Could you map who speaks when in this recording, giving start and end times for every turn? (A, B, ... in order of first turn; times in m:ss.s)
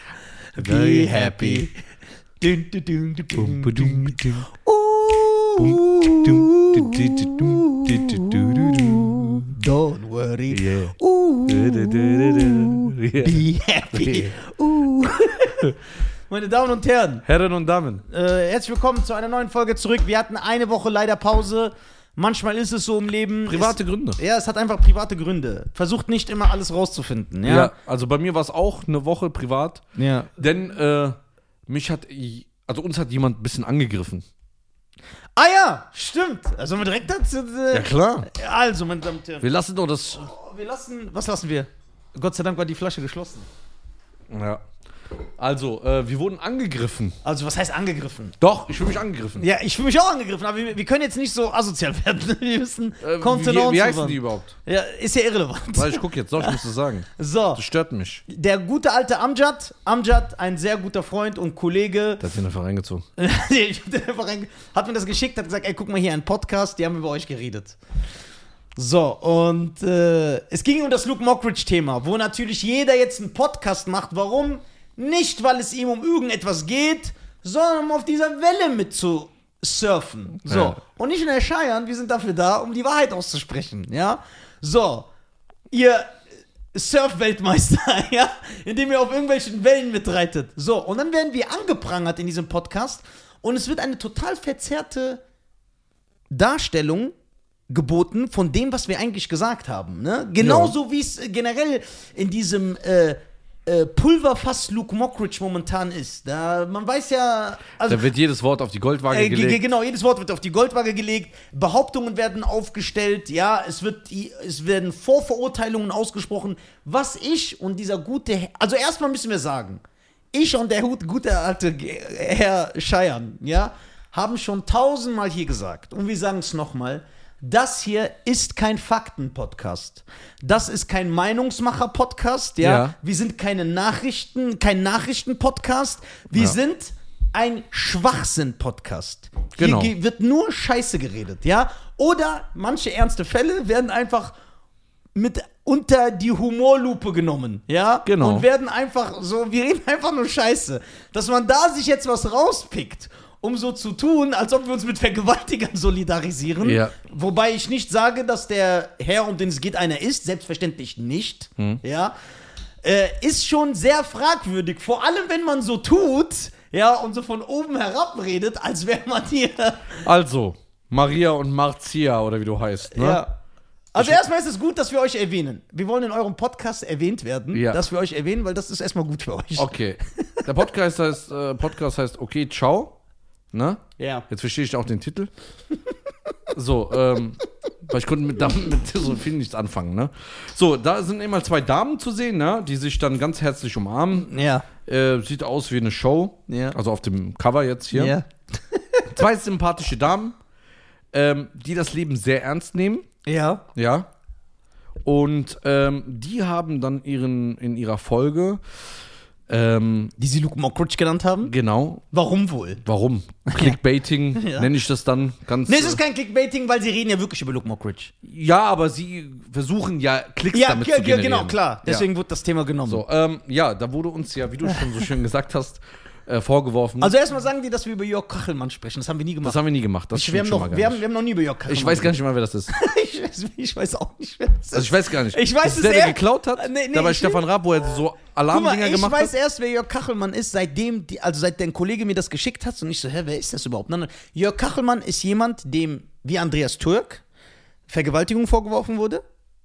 0:00.6-0:01.8 A
0:00.6-0:01.7 B
0:02.4-0:15.7 A
0:03.4-0:04.5 B
0:05.6-0:09.5 B
0:10.5-0:11.0 B
0:11.5-0:14.3 B
0:16.3-0:17.3 A
0:17.3-0:18.0 B
0:18.1-0:27.7 A
0:23.5-0:24.2 B
0:27.4-0:34.2 B
0:30.0-0:30.3 A
0:35.4-0:39.5 A
0:37.7-0:38.3 B
0:39.4-0:40.3 B
0:40.1-0:43.5 A
0:44.3-0:44.6 B
0:45.4-0:47.2 B
0:47.2-0:48.4 A
0:48.4-0:49.5 B
0:49.4-0:56.6 A
0:53.0-0:54.6 B
0:55.8-0:58.2 B
0:57.2-0:57.6 A
0:58.3-1:02.2 A
1:02.2-1:03.0 B
1:03.2-1:07.8 A
1:08.8-1:25.1 A
1:20.4-1:20.8 B
1:25.7-1:26.2 A
1:26.7-1:35.2 A
1:36.3-1:37.1 A
1:37.7-1:48.0 A
1:40.4-1:40.8 B
1:47.8-1:49.6 B
1:49.1-1:59.8 A
2:00.3-2:24.3 A
2:12.6-2:13.0 B
2:19.6-2:19.9 B
2:25.2-2:42.2 A
2:28.0-2:28.5 B
2:36.6-2:36.9 B
2:42.8-2:50.0 A
2:50.0-2:53.2 B
2:52.9-2:53.4 A
2:53.9-3:00.5 A
2:57.5-2:57.8 B
2:59.6-3:03.0 B
3:03.5-3:05.3 B
3:04.0-3:04.2 A
3:06.5-3:18.2 B
3:14.2-3:14.7 A
3:16.5-3:16.8 A
3:17.9-3:19.2 A
3:19.1-3:20.4 B
3:21.1-3:23.0 B
3:23.2-3:23.6 A
3:23.8-3:24.1 B
3:25.0-3:28.6 B
3:29.5-3:30.1 B
3:30.2-3:31.5 A
3:31.4-3:32.0 B
3:32.1-3:32.8 A
3:32.8-3:36.0 B
3:33.5-3:33.8 A
3:34.3-3:34.7 A
3:35.7-3:38.1 A
3:38.2-3:42.1 B
3:40.5-3:43.0 A
3:42.9-3:47.1 B
3:47.0-3:49.6 A
3:49.4-3:51.0 B
3:50.1-3:52.2 A
3:51.7-3:52.7 B
3:52.7-3:57.4 A
3:54.7-3:59.3 B
3:58.5-4:07.2 A
4:07.9-4:09.2 A